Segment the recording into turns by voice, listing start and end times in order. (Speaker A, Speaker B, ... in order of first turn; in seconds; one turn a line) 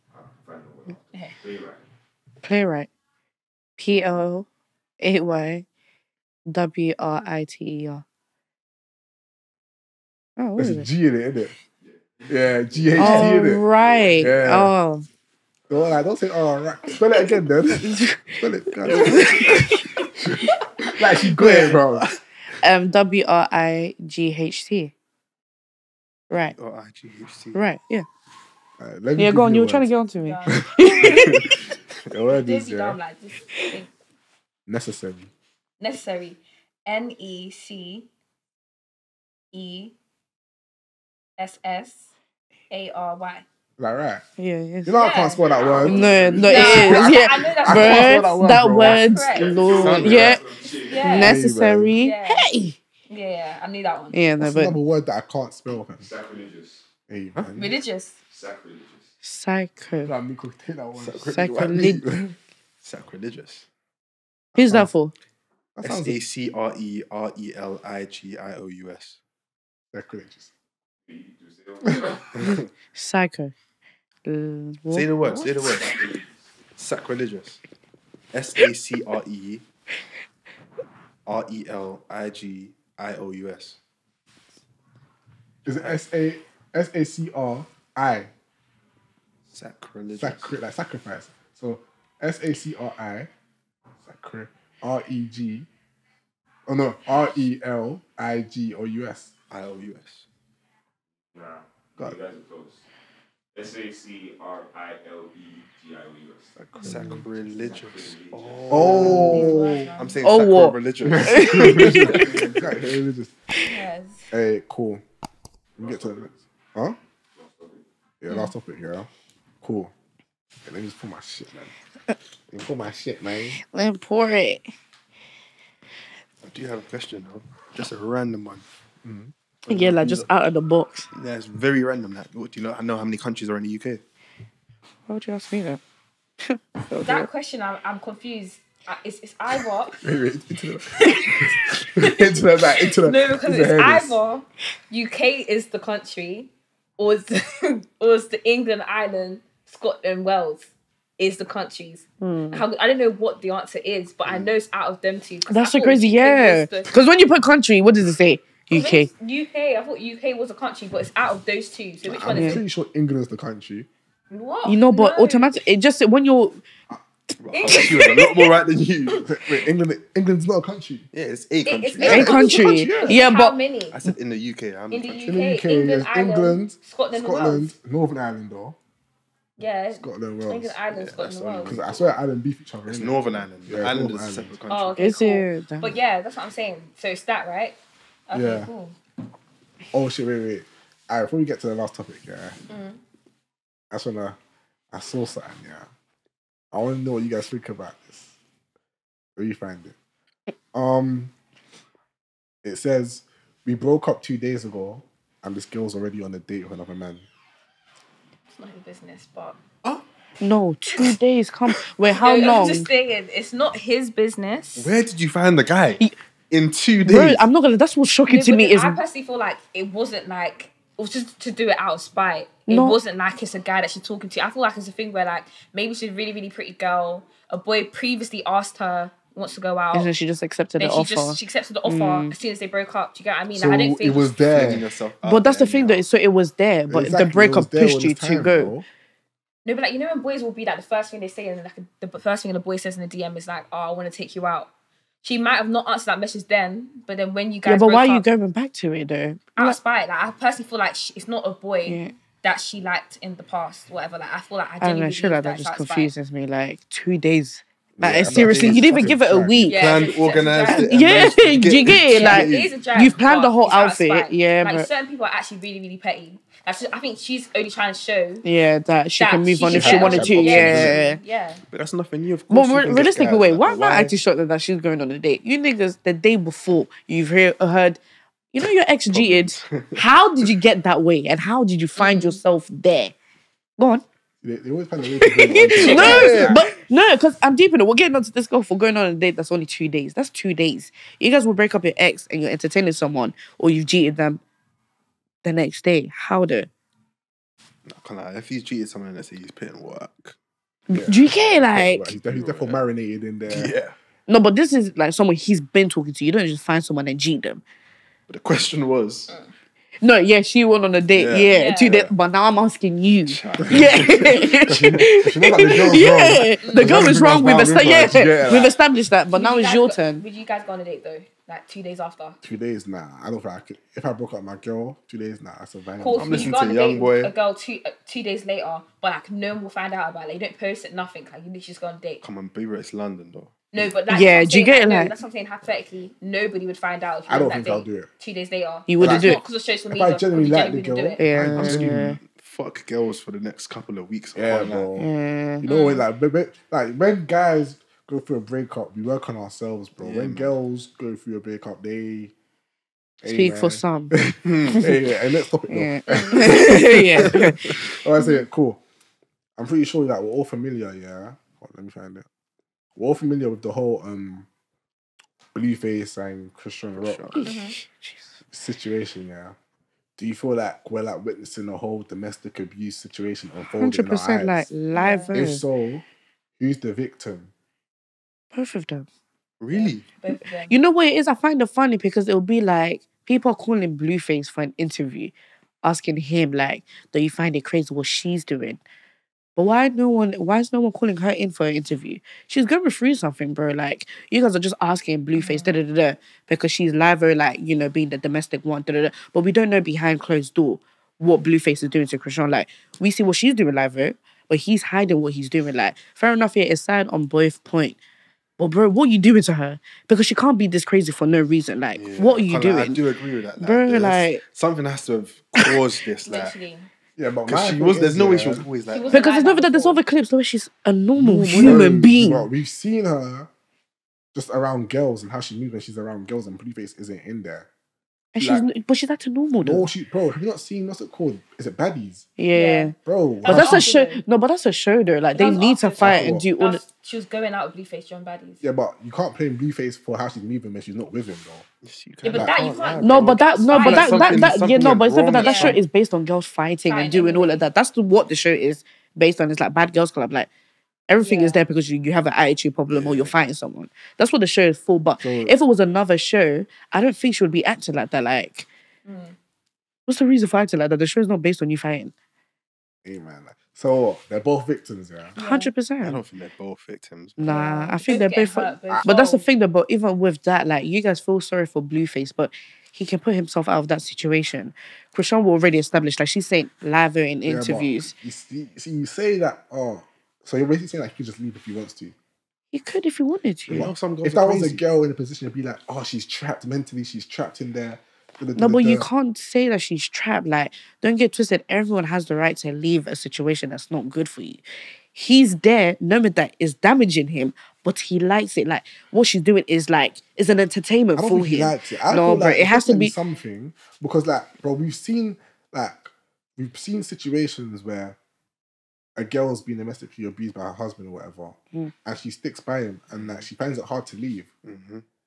Speaker A: 0.1-1.8
Speaker B: 2.4-2.9
Speaker B: 3.8-4.5
Speaker B: 5.0-5.7
Speaker B: 6.5-8.0
Speaker B: 10.4-10.9
Speaker C: 10.6-11.5
Speaker A: 11.8-14.6
Speaker C: 12.3-13.6
Speaker B: 12.9-15.1
Speaker C: 14.2-14.7
Speaker C: 15.7-19.5
Speaker B: 17.6-20.1
Speaker D: 18.9-19.6
Speaker C: 20.9-22.1
Speaker B: 21.4-21.8
Speaker D: 21.4-22.2
Speaker B: 22.6-24.9
Speaker B: 26.3-26.5
Speaker D: 26.5-27.6
Speaker B: 27.5-28.1
Speaker C: 28.8-29.9
Speaker B: 29.2-31.6
Speaker E: 30.2-31.4
Speaker C: 30.5-30.8
Speaker C: 32.1-33.0
Speaker E: 32.3-33.9
Speaker C: 34.7-35.3
Speaker E: 35.8-38.1
Speaker E: 39.5-39.9
Speaker E: 41.4-42.1
Speaker E: 42.7-43.4
Speaker C: 43.8-44.2
Speaker B: 44.4-44.9
Speaker C: 44.9-49.1
Speaker E: 44.9-45.5
Speaker D: 45.6-46.9
Speaker A: 45.8-46.6
Speaker B: 45.8-50.4
Speaker E: 46.4-49.5
Speaker D: 49.3-50.6
Speaker A: 49.4-51.2
Speaker E: 50.9-51.4
Speaker B: 51.0-52.8
Speaker C: 51.1-51.9
Speaker E: 52.0-52.5
Speaker E: 53.1-54.2
Speaker B: 54.1-54.8
Speaker C: 54.4-56.1
Speaker A: 55.9-56.8
Speaker C: 57.1-57.6
Speaker D: 57.3-57.6
Speaker E: 57.5-58.2
Speaker A: 58.3-59.1
Speaker B: 59.2-60.1
Speaker C: 60.0-62.3
Speaker D: 61.0-62.2
Speaker B: 61.2-62.2
Speaker D: 62.8-63.7
Speaker B: 64.5-65.1
Speaker C: 64.5-64.9
Speaker C: 65.8-66.2
Speaker D: 65.8-69.2
Speaker C: 69.9-70.5
Speaker A: 71.1-72.5
Speaker C: 71.8-72.1
Speaker B: 72.9-73.5
Speaker B: 74.2-75.1
Speaker D: 74.9-76.1
Speaker C: 75.3-75.7
Speaker A: 75.8-76.2
Speaker D: 76.8-77.6
Speaker D: 78.3-79.6
Speaker D: 81.2-83.8
Speaker C: 85.6-88.3
Speaker D: 85.7-86.0
Speaker D: 89.5-90.5
Speaker C: 90.2-93.3
Speaker C: 94.0-95.7
Speaker C: 96.7-99.3
Speaker D: 99.5-100.2
Speaker A: 101.3-102.8
Speaker A: 103.5-106.6
Speaker D: 106.6-112.6
Speaker A: 107.4-109.1
Speaker C: 108.7-109.9
Speaker E: 108.9-110.2
Speaker B: 110.2-112.4
Speaker C: 111.0-113.3
Speaker A: 112.0-112.7
Speaker E: 113.6-114.3
Speaker C: 114.3-115.0
Speaker A: 115.8-116.4
Speaker C: 115.8-117.0
Speaker A: 117.4-117.8
Speaker C: 118.2-119.1
Speaker C: 119.6-119.9
Speaker C: 120.6-121.7
Speaker C: 122.5-123.6
Speaker B: 123.5-124.7
Speaker D: 126.4-128.6
Speaker C: 129.0-129.3
Speaker D: 129.7-130.3
Speaker B: 129.7-131.1
Speaker D: 131.1-134.0
Speaker B: 135.1-135.8
Speaker B: 136.4-137.3
Speaker E: 137.0-140.0
Speaker C: 140.0-144.2
Speaker E: 140.9-156.9
Speaker B: 152.2-152.6
Speaker D: 154.3-154.5
Speaker B: 155.5-159.1
Speaker E: 158.7-162.6
Speaker C: 162.0-163.9
Speaker B: 162.3-162.6
Speaker E: 164.3-165.5
Speaker B: 164.6-166.6
Speaker D: 167.4-169.3
Speaker E: 167.5-168.6
Speaker B: 167.7-168.1
Speaker C: 169.2-171.1
Speaker D: 171.1-172.4
Speaker E: 171.6-174.0
Speaker C: 172.0-173.2
Speaker B: 172.0-173.6
Speaker D: 173.9-175.3
Speaker E: 174.9-177.7
Speaker C: 175.3-178.8
Speaker E: 179.6-181.7
Speaker C: 180.0-180.8
Speaker D: 180.9-182.2
Speaker C: 181.6-184.5
Speaker D: 182.9-185.1
Speaker E: 184.7-187.8
Speaker B: 185.0-186.0
Speaker E: 188.3-188.9
Speaker C: 188.3-188.7
Speaker C: 189.9-192.6
Speaker E: 192.7-193.0
Speaker C: 193.9-194.4
Speaker C: 194.9-195.9
Speaker C: 196.7-198.3
Speaker C: 199.4-199.9
Speaker C: 200.7-201.3
Speaker C: 202.6-207.2
Speaker E: 208.5-209.6
Speaker B: 210.4-212.9
Speaker E: 212.1-214.9
Speaker D: 214.8-217.4
Speaker B: 217.0-219.0
Speaker E: 218.3-230.1
Speaker B: 222.7-223.0
Speaker B: 229.9-232.3
Speaker E: 230.8-234.3
Speaker C: 233.5-234.9
Speaker D: 234.4-236.1
Speaker B: 235.2-238.7
Speaker C: 236.9-238.8
Speaker E: 239.6-244.7
Speaker E: 245.2-248.2
Speaker B: 247.7-249.8
Speaker E: 249.6-256.1
Speaker B: 251.8-252.1
Speaker B: 254.8-260.1
Speaker C: 258.0-259.8
Speaker D: 258.2-259.1
Speaker D: 259.6-262.8
Speaker E: 259.7-261.0
Speaker B: 260.6-264.9
Speaker E: 262.1-268.4
Speaker B: 268.4-271.2
Speaker E: 269.2-271.6
Speaker C: 269.6-270.9
Speaker D: 271.7-274.1
Speaker B: 272.5-278.0
Speaker B: 278.5-283.1
Speaker D: 279.1-280.0
Speaker E: 282.0-282.4
Speaker B: 283.8-284.0
Speaker C: 284.4-286.6
Speaker B: 285.2-294.4
Speaker D: 285.8-286.7
Speaker E: 285.9-286.3
Speaker B: 295.4-296.7
Speaker D: 297.9-300.4
Speaker B: 300.9-302.1
Speaker C: 300.9-303.7
Speaker D: 302.2-302.8
Speaker D: 303.5-303.9
Speaker B: 304.3-307.6
Speaker D: 308.3-309.3
Speaker B: 310.0-320.2
Speaker D: 311.1-311.5
Speaker E: 311.5-312.1
Speaker D: 313.2-314.5
Speaker C: 313.6-318.8
Speaker E: 316.6-316.9
Speaker D: 316.8-318.1
Speaker E: 319.3-322.4
Speaker C: 322.4-326.6
Speaker E: 326.0-332.2
Speaker D: 326.1-327.3
Speaker D: 332.2-333.9
Speaker E: 333.7-341.2
Speaker B: 334.1-335.1
Speaker C: 337.3-338.1
Speaker B: 338.9-339.4
Speaker C: 339.0-339.4
Speaker C: 339.9-342.2
Speaker B: 341.2-342.2
Speaker D: 341.5-344.9
Speaker C: 344.3-345.1
Speaker B: 344.9-345.6
Speaker C: 345.6-352.3
Speaker E: 345.7-346.0
Speaker D: 350.0-350.5
Speaker C: 353.2-358.8
Speaker B: 353.2-354.1
Speaker D: 354.4-354.9
Speaker B: 354.7-354.9
Speaker B: 355.7-357.6
Speaker E: 356.1-356.5
Speaker D: 357.1-357.9
Speaker C: 359.6-362.2
Speaker C: 362.9-364.5
Speaker C: 365.5-367.3
Speaker D: 367.0-367.5
Speaker B: 367.3-368.2
Speaker E: 367.4-367.8
Speaker C: 368.5-369.5
Speaker C: 370.2-374.7
Speaker B: 373.8-375.6
Speaker E: 374.9-375.3
Speaker C: 375.3-376.0
Speaker C: 376.6-377.5
Speaker B: 378.5-379.1
Speaker D: 379.6-380.1
Speaker E: 379.7-380.7
Speaker B: 380.6-385.3
Speaker B: 385.8-388.8
Speaker B: 389.6-407.9
Speaker E: 395.3-395.7
Speaker B: 408.6-413.0
Speaker D: 411.9-416.6
Speaker B: 413.6-414.4
Speaker E: 416.2-416.9
Speaker C: 417.2-418.6
Speaker D: 417.5-419.2
Speaker E: 418.9-420.0
Speaker B: 419.1-422.5
Speaker C: 421.1-423.5
Speaker D: 421.5-421.8
Speaker C: 424.3-427.7
Speaker B: 428.3-429.9
Speaker C: 428.4-428.6
Speaker C: 429.6-432.3
Speaker B: 432.4-436.8
Speaker E: 432.5-434.2
Speaker C: 433.0-433.9
Speaker E: 435.3-438.6
Speaker C: 436.0-436.5
Speaker C: 438.6-441.6
Speaker D: 441.8-445.8
Speaker E: 442.2-445.8
Speaker B: 443.0-450.5
Speaker E: 446.9-447.6
Speaker B: 451.1-458.7
Speaker E: 451.2-451.6
Speaker D: 452.9-453.3
Speaker C: 455.2-455.6
Speaker E: 459.1-459.4
Speaker B: 460.1-462.1
Speaker C: 463.0-465.3
Speaker E: 465.4-465.7
Speaker B: 465.4-466.2
Speaker D: 466.0-467.6
Speaker B: 467.4-478.1
Speaker E: 467.4-469.4
Speaker C: 477.4-482.1
Speaker B: 482.7-483.9
Speaker C: 483.7-489.1
Speaker D: 483.7-484.8
Speaker B: 488.6-503.1
Speaker C: 501.1-508.2
Speaker C: 509.1-514.5
Speaker D: 513.1-513.5
Speaker D: 514.6-515.0